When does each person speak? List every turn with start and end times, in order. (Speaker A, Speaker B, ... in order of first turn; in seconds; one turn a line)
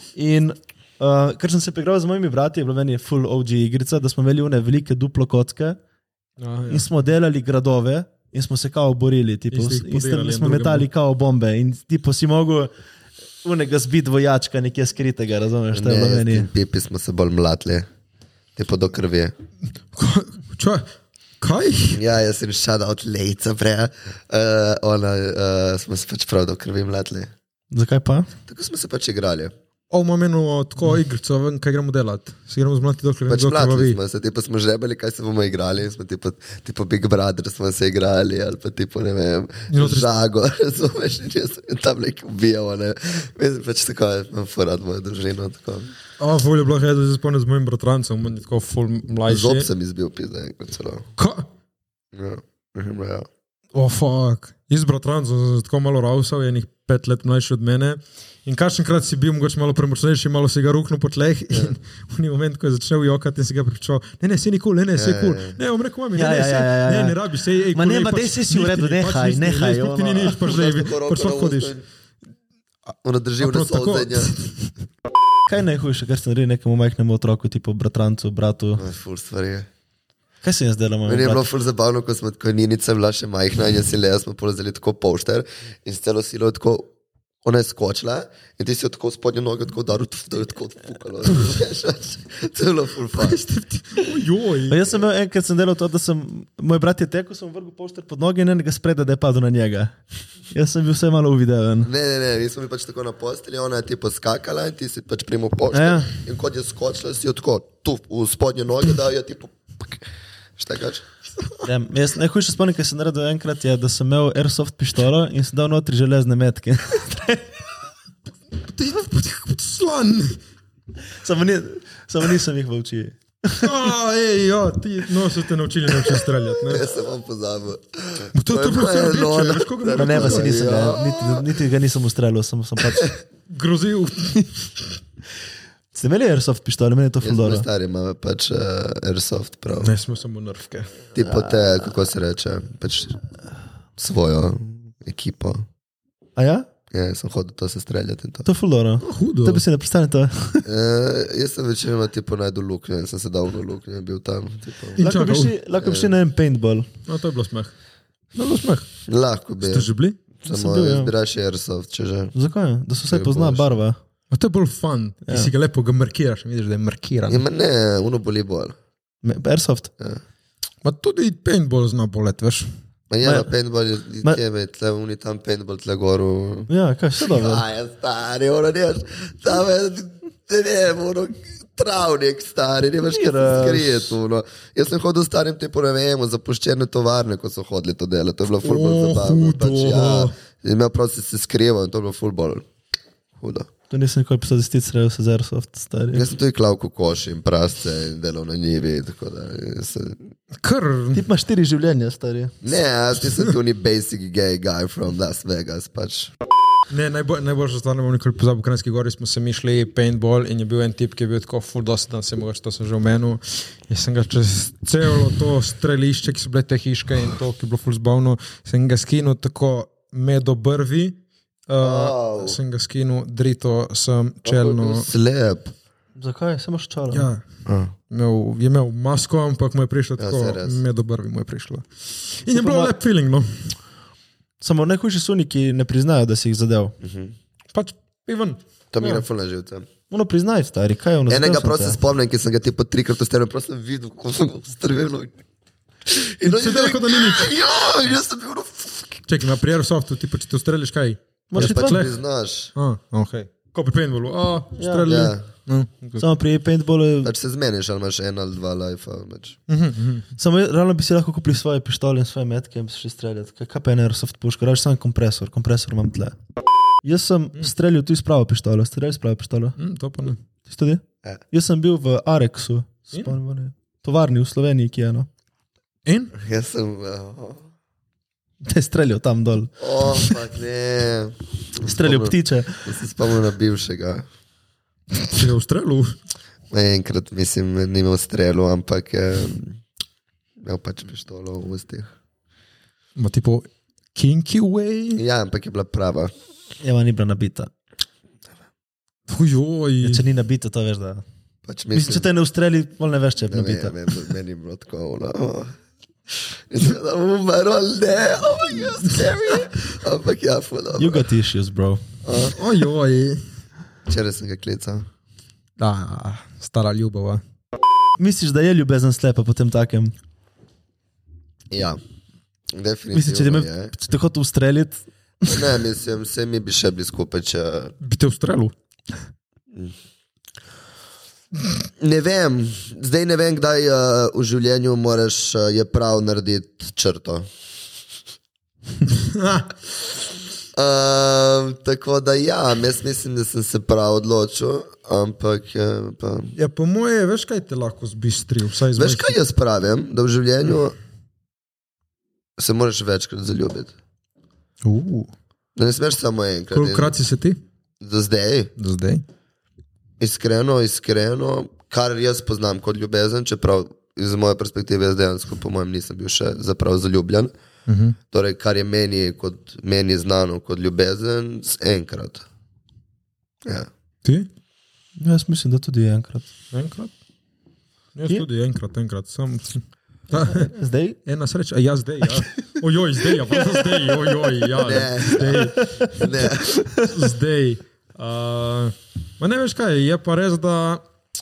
Speaker A: 0.1-5.8
Speaker B: 6.4-6.8
Speaker A: 6.7-12.7
Speaker B: 9.5-10.9
Speaker A: 13.4-16.5
Speaker C: 15.7-17.9
Speaker C: 18.6-19.3
Speaker B: 19.9-20.9
Speaker B: 21.4-22.0
Speaker C: 21.9-27.3
Speaker A: 27.7-28.3
Speaker C: 28.5-29.5
Speaker B: 29.9-34.0
Speaker C: 33.3-45.9
Speaker B: 39.7-40.1
Speaker B: 46.2-49.7
Speaker C: 49.3-51.1
Speaker B: 51.2-51.5
Speaker C: 52.1-53.3
Speaker B: 53.7-71.7
Speaker C: 65.0-65.6
Speaker A: 66.2-70.4
Speaker C: 70.5-71.8
Speaker C: 73.0-74.3
Speaker B: 73.4-74.7
Speaker A: 75.5-78.8
Speaker C: 78.8-79.7
Speaker A: 80.4-81.5
Speaker C: 81.1-86.9
Speaker C: 87.4-93.4
Speaker B: 93.2-94.8
Speaker A: 94.7-100.0
Speaker A: 100.5-101.9
Speaker C: 101.8-110.0
Speaker A: 105.7-106.1
Speaker C: 110.6-111.0
Speaker A: 111.6-117.5
Speaker B: 118.6-120.4
Speaker A: 121.1-123.7
Speaker B: 123.5-126.8
Speaker C: 126.7-131.5
Speaker B: 128.3-130.5
Speaker A: 129.9-133.1
Speaker B: 133.5-135.0
Speaker A: 135.9-137.7
Speaker C: 137.2-139.9
Speaker B: 139.8-140.9
Speaker C: 141.2-143.2
Speaker C: 144.0-145.7
Speaker A: 146.4-146.7
Speaker C: 146.9-148.5
Speaker A: 148.4-150.7
Speaker B: 149.0-149.6
Speaker C: 150.7-155.0
Speaker B: 155.0-155.5
Speaker A: 155.0-156.9
Speaker C: 155.8-156.1
Speaker B: 157.1-157.7
Speaker B: 158.3-158.9
Speaker C: 159.1-159.9
Speaker B: 159.6-160.2
Speaker C: 160.4-162.3
Speaker A: 160.5-161.1
Speaker A: 162.3-164.0
Speaker C: 163.1-163.8
Speaker B: 164.3-167.4
Speaker A: 165.3-165.5
Speaker C: 167.3-168.8
Speaker A: 169.2-169.9
Speaker B: 170.8-172.7
Speaker C: 173.1-176.7
Speaker A: 173.2-173.5
Speaker A: 176.7-177.7
Speaker C: 177.2-192.7
Speaker A: 183.1-184.1
Speaker B: 188.6-190.3
Speaker C: 193.4-193.7
Speaker A: 193.9-196.3
Speaker C: 196.1-200.3
Speaker B: 200.6-201.2
Speaker A: 201.1-202.6
Speaker C: 202.6-206.3
Speaker B: 206.9-225.1
Speaker C: 221.8-222.6
Speaker C: 224.4-225.7
Speaker A: 226.2-227.3
Speaker B: 227.1-227.4
Speaker C: 227.7-227.9
Speaker B: 228.1-233.7
Speaker C: 230.2-230.8
Speaker A: 232.5-232.9
Speaker A: 234.6-237.0
Speaker C: 237.0-237.3
Speaker B: 237.7-238.6
Speaker C: 238.9-239.9
Speaker A: 240.1-242.0
Speaker C: 241.3-245.3
Speaker C: 246.1-249.2
Speaker B: 246.4-247.5
Speaker B: 249.3-252.2
Speaker A: 251.5-252.0
Speaker C: 251.6-252.7
Speaker B: 252.8-256.3
Speaker A: 254.8-255.1
Speaker C: 255.1-255.4
Speaker A: 256.2-257.3
Speaker C: 257.2-259.6
Speaker B: 259.7-260.3
Speaker A: 260.4-266.4
Speaker A: 267.0-269.8
Speaker B: 269.8-270.4
Speaker A: 270.7-275.3
Speaker B: 276.1-276.3
Speaker C: 276.4-277.6
Speaker A: 278.6-280.4
Speaker C: 279.8-284.3
Speaker A: 281.9-282.9
Speaker B: 285.3-286.2
Speaker C: 286.7-289.8
Speaker C: 290.6-292.1
Speaker B: 293.2-295.2
Speaker C: 295.2-296.3
Speaker A: 296.8-297.7
Speaker B: 299.3-300.2
Speaker A: 300.0-301.2
Speaker C: 301.7-302.3
Speaker A: 301.9-304.1
Speaker C: 303.5-305.8
Speaker C: 306.7-311.3
Speaker A: 311.0-312.0
Speaker C: 312.2-312.6
Speaker B: 312.5-313.4
Speaker C: 314.1-315.1
Speaker B: 315.8-317.4
Speaker A: 318.2-320.1
Speaker C: 321.7-322.0
Speaker C: 322.7-323.9
Speaker A: 323.1-325.8
Speaker C: 325.5-328.0
Speaker B: 328.0-328.7
Speaker C: 332.0-337.5
Speaker B: 339.1-339.7
Speaker C: 340.7-346.5
Speaker B: 346.6-349.4
Speaker C: 349.0-351.0
Speaker C: 352.6-353.9
Speaker B: 354.8-355.3
Speaker C: 355.8-357.2
Speaker B: 356.7-357.6
Speaker C: 358.0-358.7
Speaker B: 358.8-359.2
Speaker C: 360.2-367.5
Speaker B: 367.9-368.2
Speaker C: 368.3-372.4
Speaker B: 374.2-374.5
Speaker A: 375.2-376.5
Speaker B: 376.7-377.1
Speaker B: 378.1-380.7
Speaker A: 380.4-381.2
Speaker B: 381.2-386.4
Speaker C: 384.8-386.8
Speaker A: 385.4-386.1
Speaker A: 386.8-387.1
Speaker B: 387.0-391.0